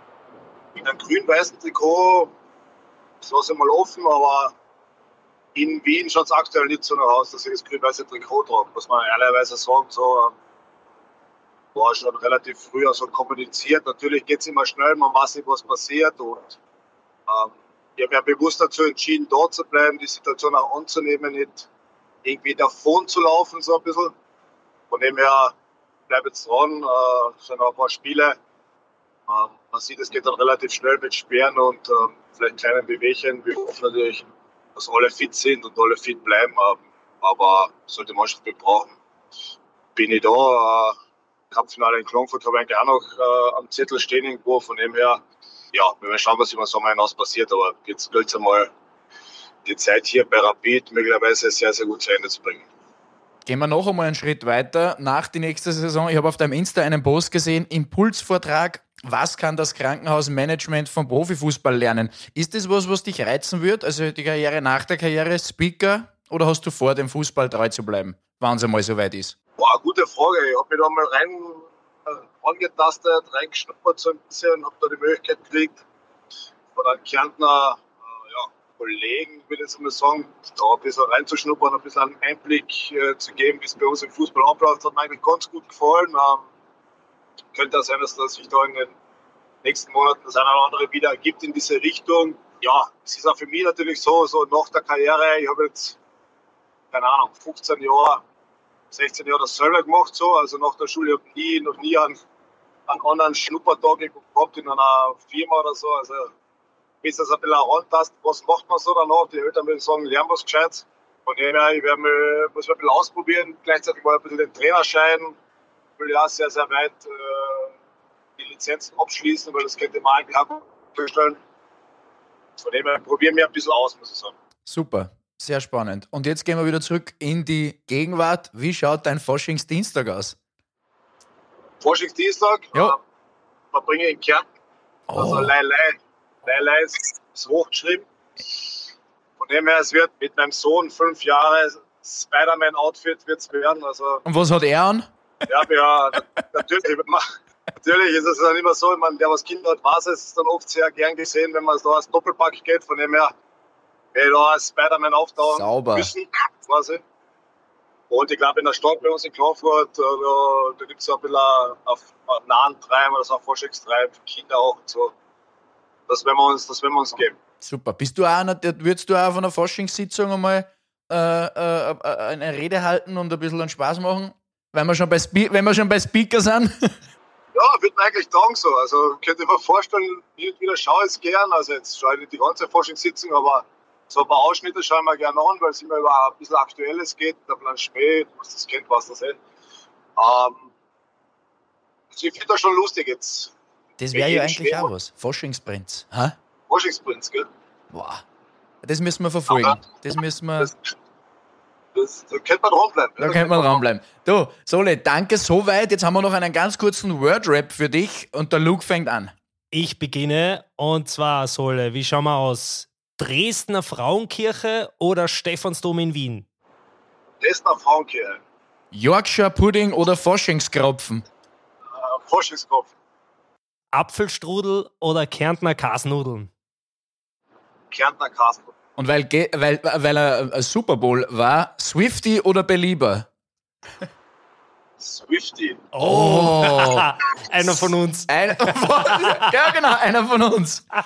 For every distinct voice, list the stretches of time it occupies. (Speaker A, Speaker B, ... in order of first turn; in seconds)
Speaker A: 0.8-2.3, 3.2-4.5, 5.5-10.3, 11.7-16.6, 17.3-21.7, 22.2-24.1, 24.9-25.5, 26.1-28.4, 29.3-34.2, 34.8-38.9, 40.0-41.0, 41.5-45.2, 45.7-48.7, 49.6-52.7, 69.6-75.8, 76.8-86.4, 87.5-88.9, 89.6-96.0, 96.9-98.2, 98.9-102.2, 102.9-106.3, 107.0-115.3, 116.0-117.7, 118.4-121.4, 122.6-124.3, 131.8-133.0, 133.7-134.4, 135.1-138.6, 139.4-144.2, 145.5-147.2, 147.8-153.3, 154.1-157.0, 158.1-165.1, 166.1-167.4, 177.5-189.4, 190.2-190.7, 192.1-193.5, 194.1-194.9, 196.7-197.5, 199.5-199.8, 201.9-203.8, 217.4-218.4, 221.9-222.9, 227.9-228.7, 235.0-235.9
Speaker B: 53.5-69.3, 124.7-130.4, 135.1-135.5, 144.2-145.1, 155.5-156.1, 167.6-177.0, 194.0-196.3, 197.9-198.2, 198.8-200.7, 203.2-209.3, 218.9-221.2, 229.0-233.3, 236.0-237.1, 237.6-240.9
Speaker C: 209.7-216.4, 223.9-226.5, 235.9-239.5